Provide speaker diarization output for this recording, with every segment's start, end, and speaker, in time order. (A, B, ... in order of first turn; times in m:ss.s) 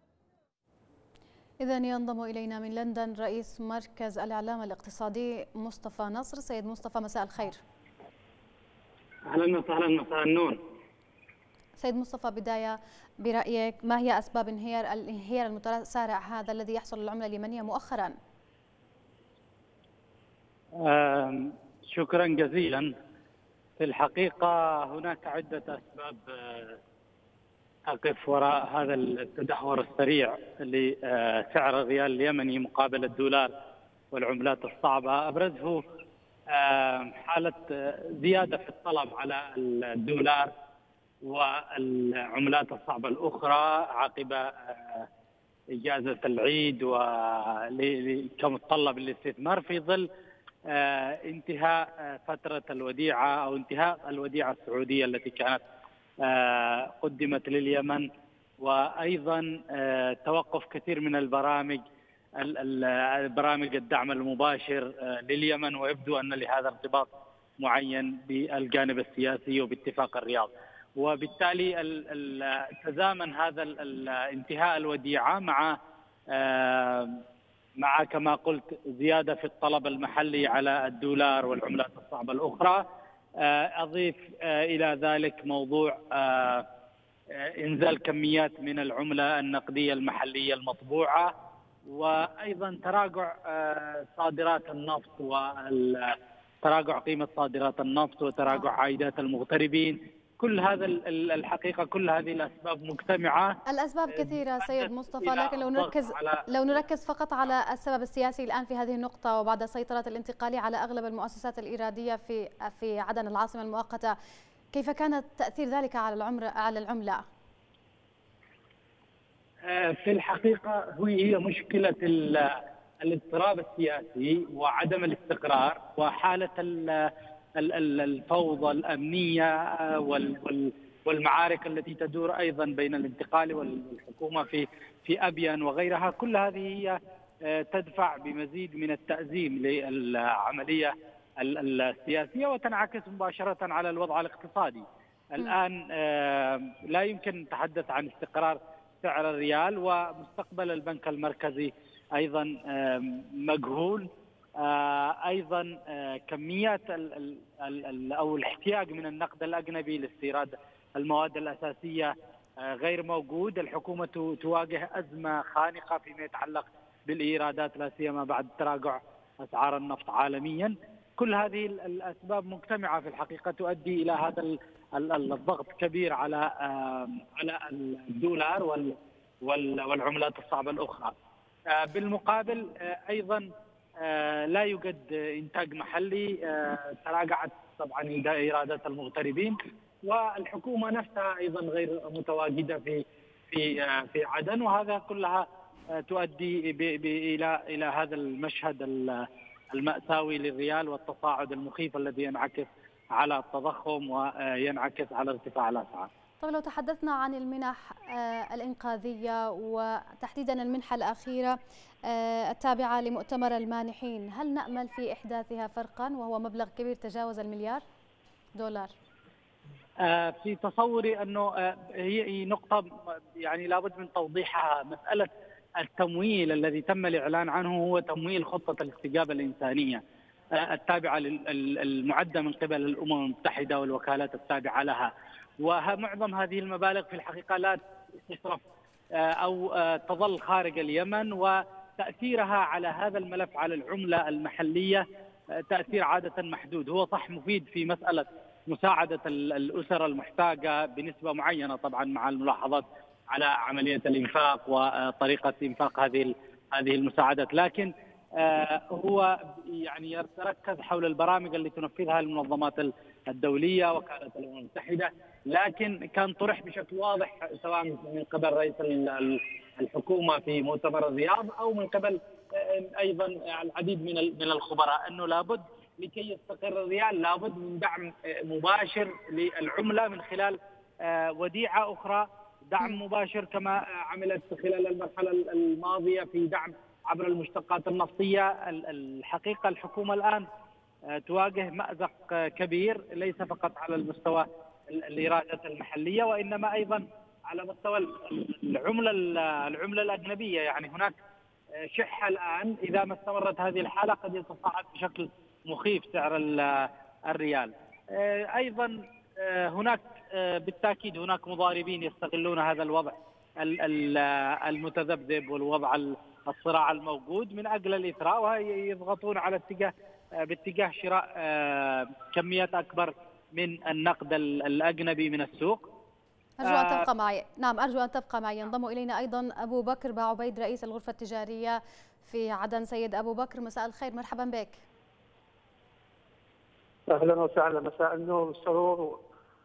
0:01.6-0:07.6 A
0:09.3-0:10.6 B
0:11.8-0:18.1 A
0:20.8-0:22.9 B
0:23.8-0:26.8 B
0:27.9-0:33.5 B
0:34.1-0:35.8 B
0:36.5-0:40.5 B
0:41.2-0:45.1 B
0:45.8-0:50.0 B
0:50.7-0:55.6 B
0:56.2-0:58.0 B
0:58.6-1:01.8 B
1:02.4-1:07.1 B
1:07.6-1:15.7 B
1:16.3-1:17.2 B
1:17.8-1:22.8 B
1:23.4-1:26.6 B
1:27.4-1:31.3 B
1:31.9-1:43.5 B
1:43.7-1:54.1 A
1:44.1-1:46.4 B
1:54.7-1:57.2 A
1:59.7-2:17.0 B
2:17.5-2:24.8 B
2:25.4-2:34.1 B
2:34.6-2:42.1 B
2:42.6-2:58.9 B
2:59.4-3:01.1 B
3:01.7-3:03.5 B
3:04.0-3:15.4 B
3:16.0-3:26.1 B
3:26.4-3:37.8 A
3:38.6-3:38.9 A
3:40.1-3:42.9 B
3:43.4-3:50.0 B
3:50.6-3:55.1 B
3:55.6-3:58.6 B
3:59.2-4:05.0 B
4:05.7-4:50.4 B
4:51.2-5:01.1 B
5:01.8-5:19.9 B
5:20.4-5:25.8 B
5:26.6-5:34.8 A
5:26.6-5:27.0 B
5:37.1-5:39.2 C